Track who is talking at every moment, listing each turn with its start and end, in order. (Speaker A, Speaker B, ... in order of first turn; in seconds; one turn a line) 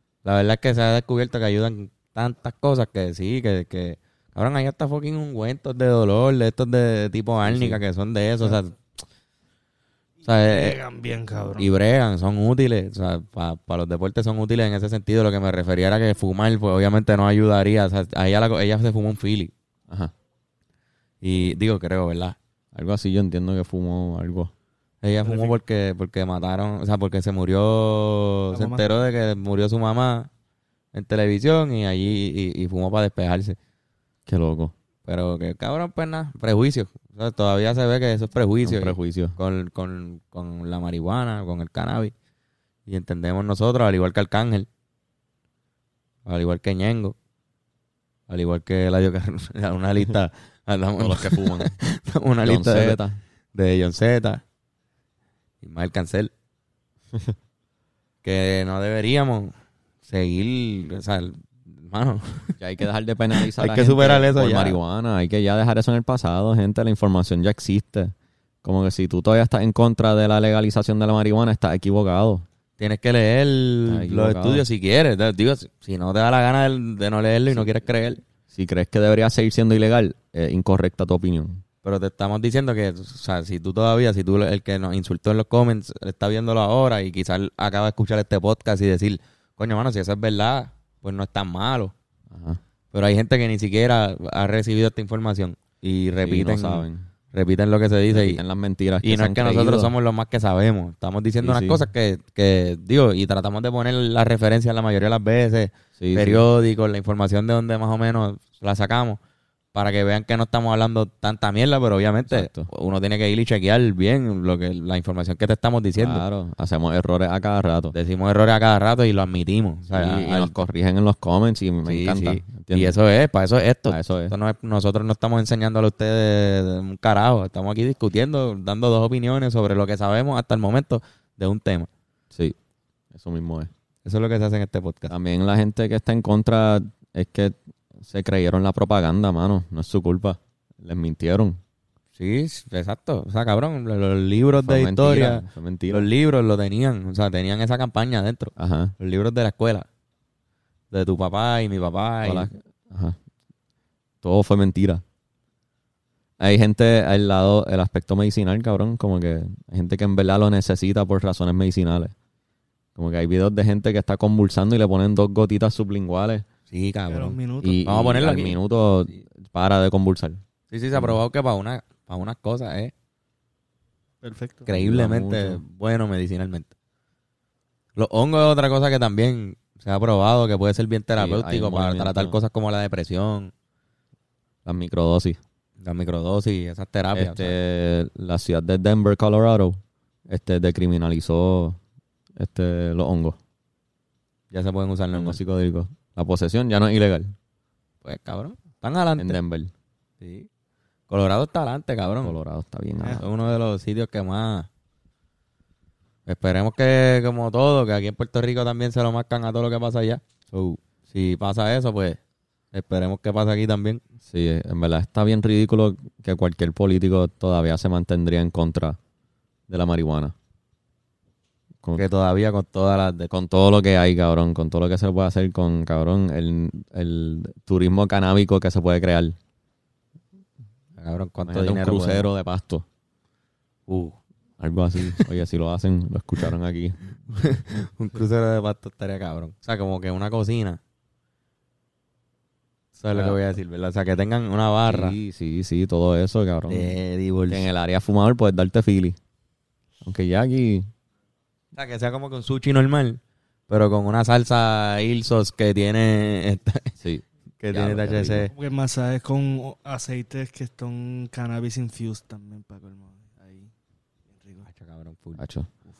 Speaker A: 0.2-8.8
Speaker B: 7.4-7.8
Speaker A: 10.2-10.8
Speaker C: 10.3-11.7
Speaker A: 11.6-19.5
Speaker A: 21.2-22.4
Speaker B: 22.7-24.5
Speaker A: 25.0-30.3
Speaker C: 25.2-25.6
Speaker C: 28.5-28.8
Speaker A: 30.9-33.6
Speaker B: 34.3-34.7
Speaker A: 35.0-42.1
Speaker B: 38.6-39.4
Speaker A: 42.9-44.7
Speaker A: 46.2-47.1
Speaker A: 48.3-53.0
Speaker B: 51.0-51.7
Speaker B: 52.4-53.2
Speaker A: 53.5-54.4
Speaker A: 55.6-56.3
Speaker A: 58.2-59.5
Speaker A: 60.0-62.6
Speaker B: 62.6-72.4
Speaker A: 63.3-64.8
Speaker A: 72.8-78.2
Speaker B: 73.9-74.6
Speaker B: 77.5-77.8
Speaker B: 78.5-81.6
Speaker A: 81.8-91.9
Speaker B: 92.3-92.6
Speaker A: 92.9-98.4
Speaker B: 96.2-97.1
Speaker B: 98.1-99.9
Speaker A: 99.0-109.2
Speaker B: 101.4-101.8
Speaker B: 106.0-106.4
Speaker A: 109.7-116.2
Speaker B: 112.3-112.7
Speaker B: 116.0-117.9
Speaker A: 117.9-120.6
Speaker B: 119.9-123.0
Speaker A: 121.8-131.9
Speaker B: 123.9-124.3
Speaker B: 133.1-133.7
Speaker A: 134.0-135.1
Speaker B: 135.1-141.6
Speaker A: 142.2-149.8
Speaker B: 144.6-146.1
Speaker B: 148.6-148.9
Speaker A: 150.9-152.5
Speaker B: 152.2-153.2
Speaker B: 154.2-155.0
Speaker B: 156.4-162.1
Speaker B: 162.9-166.4
Speaker A: 166.7-169.2
Speaker C: 167.1-167.8
Speaker B: 167.6-170.4
Speaker A: 170.7-172.9
Speaker B: 170.9-171.2
Speaker C: 174.2-174.7
Speaker A: 174.7-176.7
Speaker B: 174.7-175.6
Speaker A: 178.0-183.5
Speaker B: 181.2-182.4
Speaker B: 184.6-185.4
Speaker A: 185.8-187.6
Speaker B: 187.1-191.8
Speaker B: 192.4-193.4
Speaker A: 194.5-195.4
Speaker B: 195.1-197.3
Speaker A: 198.0-199.4
Speaker B: 199.2-199.7
Speaker A: 200.2-200.5
Speaker A: 201.1-202.3
Speaker B: 202.2-203.2
Speaker A: 203.2-204.7
Speaker A: 206.2-212.2
Speaker A: 212.7-214.0
Speaker B: 214.2-219.0
Speaker B: 219.7-220.3
Speaker A: 221.9-223.3
Speaker B: 223.3-229.3
Speaker A: 231.0-232.3
Speaker B: 231.4-232.8
Speaker A: 233.9-234.2
Speaker B: 234.6-237.0
Speaker A: 237.3-240.8
Speaker A: 243.0-245.2
Speaker B: 243.1-243.4
Speaker B: 244.9-246.9
Speaker A: 246.7-247.7
Speaker B: 247.5-249.2
Speaker B: 250.0-250.9
Speaker A: 251.7-256.9
Speaker B: 257.0-258.4
Speaker A: 257.6-258.5
Speaker C: 258.5-263.7
Speaker C: 264.3-264.7
Speaker A: 264.7-265.4
Speaker B: 265.4-265.7